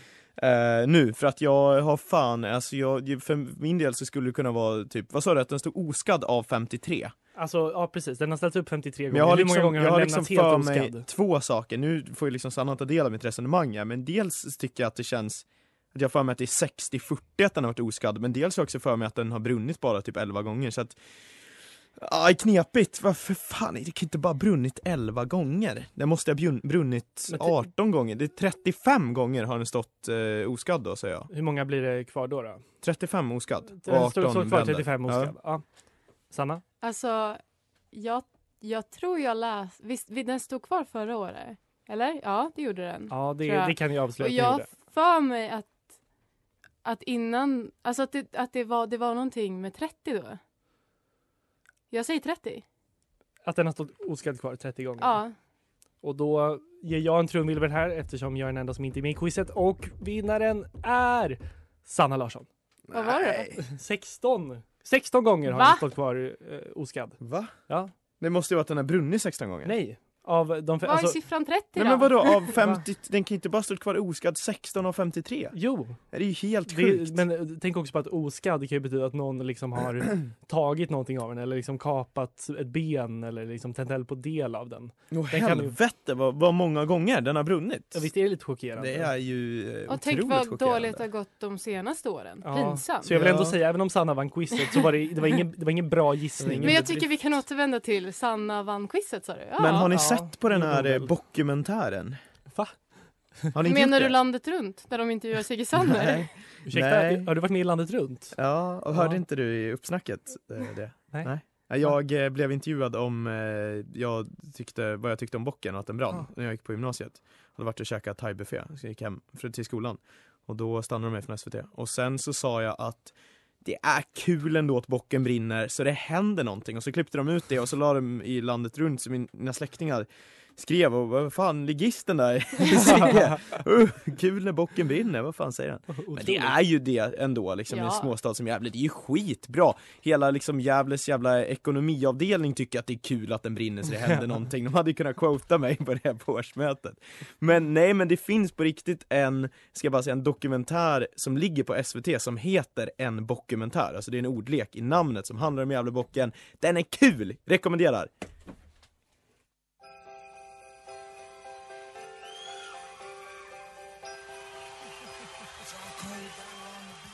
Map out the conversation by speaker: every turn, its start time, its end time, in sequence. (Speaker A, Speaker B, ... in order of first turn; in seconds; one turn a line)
Speaker A: 0.4-7.1
Speaker B: 7.4-11.1
Speaker A: 9.1-21.0
Speaker A: 22.0-31.3
Speaker B: 27.3-27.6
Speaker B: 31.3-32.6
Speaker A: 32.8-35.3
Speaker B: 33.8-35.6
Speaker B: 36.3-36.6
Speaker C: 36.8-37.4
Speaker C: 37.9-45.8
Speaker B: 43.1-44.7
Speaker C: 46.8-50.4
Speaker C: 51.9-52.6
Speaker B: 53.4-55.2
Speaker C: 55.0-55.3
Speaker B: 56.0-62.5
Speaker A: 62.9-63.6
Speaker C: 62.9-63.5
Speaker B: 63.6-67.9
Speaker C: 65.5-65.8
Speaker A: 67.2-67.5
Speaker A: 68.2-69.7
Speaker B: 69.7-71.2
Speaker C: 70.8-72.5
Speaker A: 71.8-75.6
Speaker B: 72.5-72.8
Speaker B: 75.5-76.0
Speaker A: 76.1-77.2
Speaker B: 76.7-85.8
Speaker A: 85.1-88.1
Speaker B: 87.9-89.1
Speaker A: 88.8-91.0
Speaker C: 89.9-93.1
Speaker B: 92.4-97.0
Speaker A: 93.1-93.6
Speaker A: 96.4-97.0
Speaker C: 96.6-99.9
Speaker A: 99.6-102.2
Speaker B: 99.8-101.1
Speaker A: 103.5-104.2
Speaker C: 103.6-106.3
Speaker A: 105.8-107.3
Speaker B: 106.7-108.4
Speaker A: 108.3-158.1
Speaker B: 108.9-109.2
Speaker B: 132.8-133.2
Speaker B: 135.9-136.6
Speaker C: 137.7-138.1